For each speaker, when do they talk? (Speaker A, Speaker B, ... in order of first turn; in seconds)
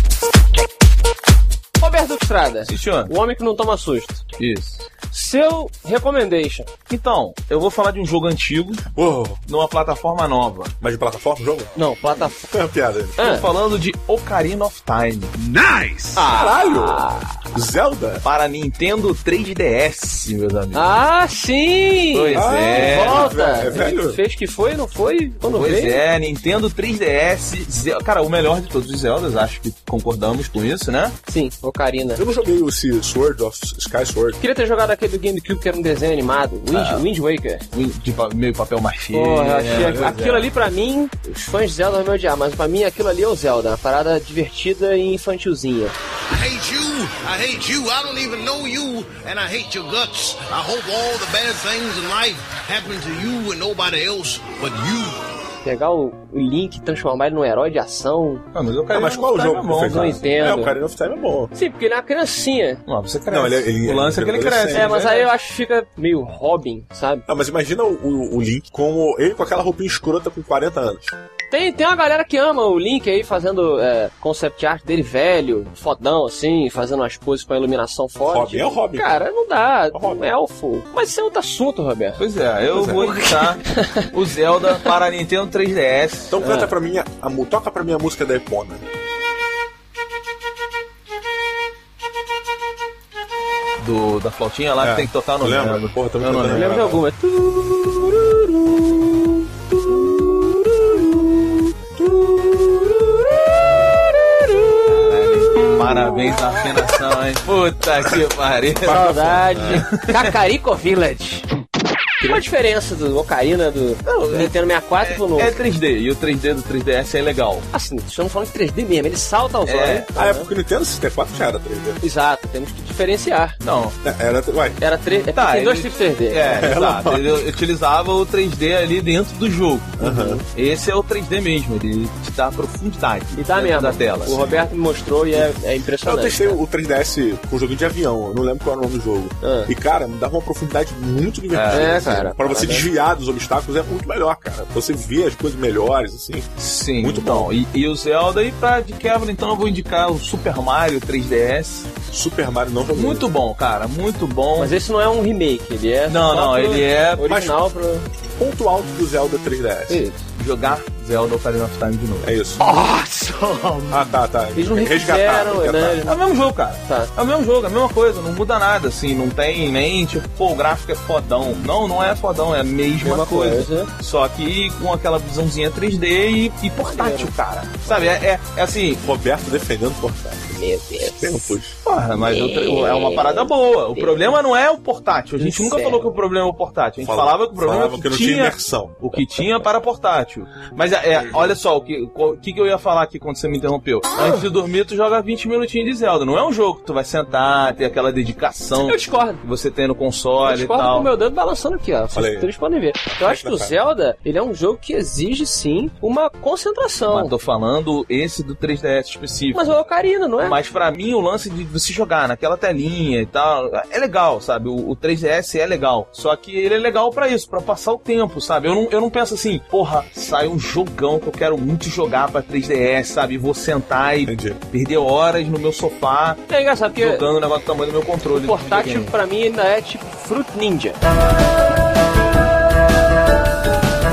Speaker A: 1.8-4.2, 5.1-6.7, 11.7-12.5, 13.2-13.4, 16.1-17.4, 20.7-26.0, 31.3-32.2, 34.4-37.6, 39.1-45.9, 55.6-58.4, 59.9-60.7, 61.5-62.8, 64.7-67.2, 71.5-82.2, 82.8-84.1, 86.4-86.7, 96.5-105.7, 108.9-111.5, 112.2-115.5, 117.7-120.5, 122.0-123.6, 124.8-126.7, 130.0-130.4, 133.4-136.6, 139.4-139.7, 141.7-142.9, 154.6-158.1, 159.9-160.2, 162.6-163.9, 164.5-166.2, 166.9-167.1, 173.0-173.9, 176.8-177.3, 180.5-181.5, 182.2-184.3, 185.4-186.1, 194.2-194.4, 198.8-199.4, 200.4-207.3, 209.5-210.6, 226.5-227.2, 228.3-231.0
Speaker B: 2.7-3.1, 4.4-4.8, 6.9-8.9, 9.5-10.7, 13.2-15.4, 18.2-20.9, 22.1-23.3, 25.5-31.1, 36.7-37.0, 37.7-40.5, 58.5-60.2, 62.9-65.3, 82.2-86.3, 93.8-96.9, 104.9-110.3, 114.1-117.7, 119.7-120.1, 123.6-124.0, 125.3-130.0, 130.5-134.7, 141.5-142.1, 146.6-151.9, 152.9-154.8, 156.1-157.3, 160.3-162.3, 166.0-179.0, 181.8-201.1, 207.1-209.8, 210.4-229.1
Speaker C: 8.9-9.4, 10.8-11.7, 12.5-13.2, 15.4-18.2, 22.3-24.2, 32.2-34.4, 39.7-40.1, 58.9-61.5, 63.3-64.9, 67.3-71.1, 78.2-79.1, 79.9-80.3, 86.3-88.8, 94.8-97.0, 108.9-109.9, 120.2-122.0, 124.0-124.8, 126.5-127.4, 130.0-130.4, 136.0-147.5, 152.1-153.3, 157.3-157.6, 158.4-160.0, 162.2-162.6, 163.9-166.0, 179.0-181.8, 187.0-189.2, 202.1-202.5, 203.1-203.8, 224.2-224.6
Speaker D: 46.3-55.2